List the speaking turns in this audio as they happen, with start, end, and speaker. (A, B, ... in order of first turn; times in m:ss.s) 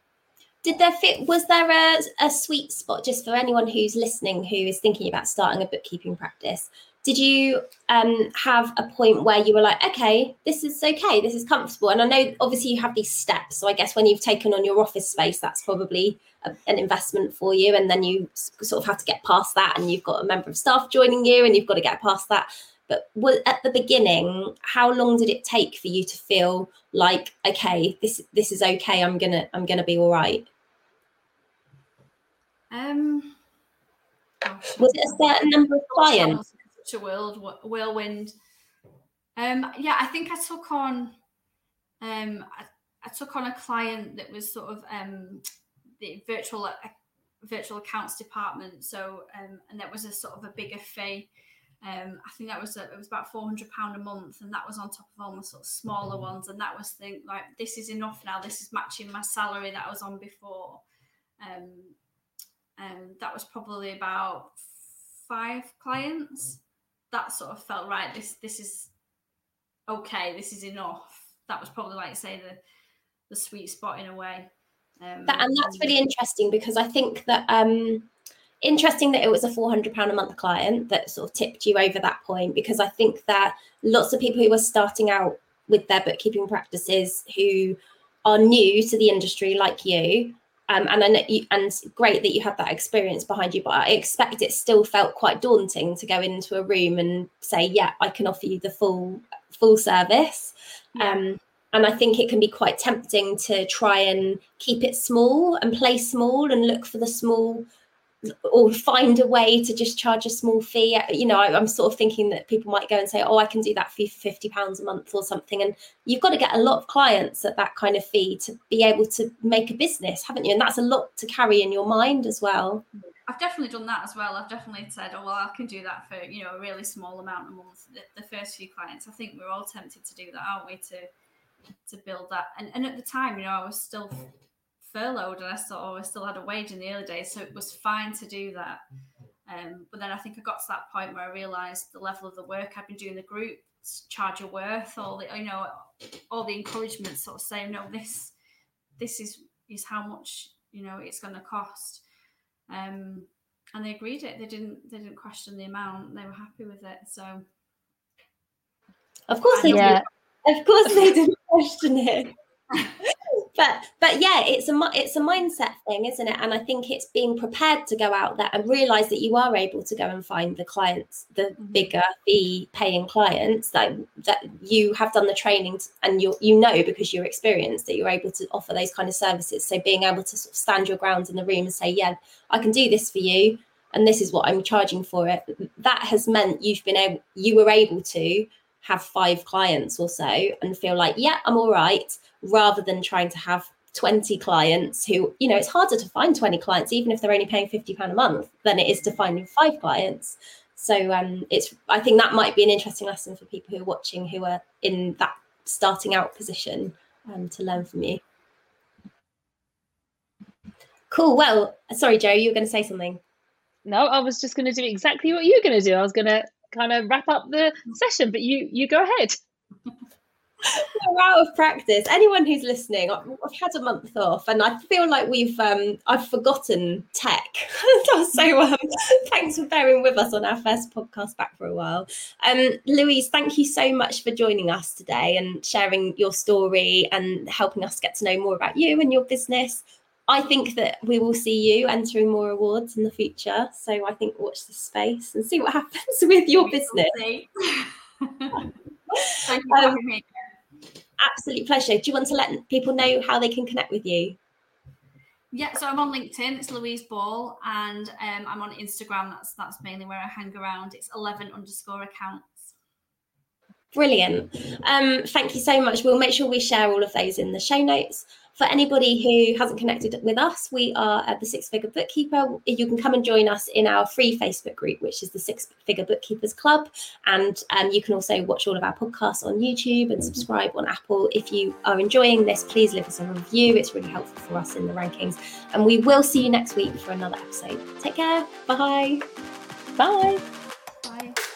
0:00.6-0:30.5 A
0:32.7-0:33.4 B
0:34.4-0:38.3 B
0:34.8-0:36.4 A
0:39.4-0:41.2 B
0:42.0-0:45.4 B
0:46.0-0:51.3 B
0:51.8-1:00.8 B
1:01.4-1:02.0 B
1:02.8-1:04.6 B
1:05.3-1:08.9 B
1:09.9-1:12.6 B
1:13.3-1:15.9 B
1:15.3-1:18.1 A
1:18.6-1:47.7 A
1:41.0-1:41.3 B
1:48.2-2:02.8 A
2:03.3-2:11.1 B
2:11.8-2:18.8 B
2:19.5-2:28.3 B
2:29.0-2:32.0 B
2:32.7-2:37.4 B
2:39.3-2:42.3 A
2:39.5-2:40.0 B
2:39.7-2:40.0 C
2:43.0-3:28.2 A
2:51.6-2:51.9 B
3:31.1-3:33.2 A
3:33.8-3:39.4 C
3:40.6-4:07.2 A
4:06.5-4:08.7 B
4:09.3-4:10.3 B
4:09.7-4:10.0 A
4:11.2-4:14.4 A
4:15.5-4:22.7 B
4:23.9-4:49.2 A
4:50.0-4:50.4 C
4:51.0-4:51.4 B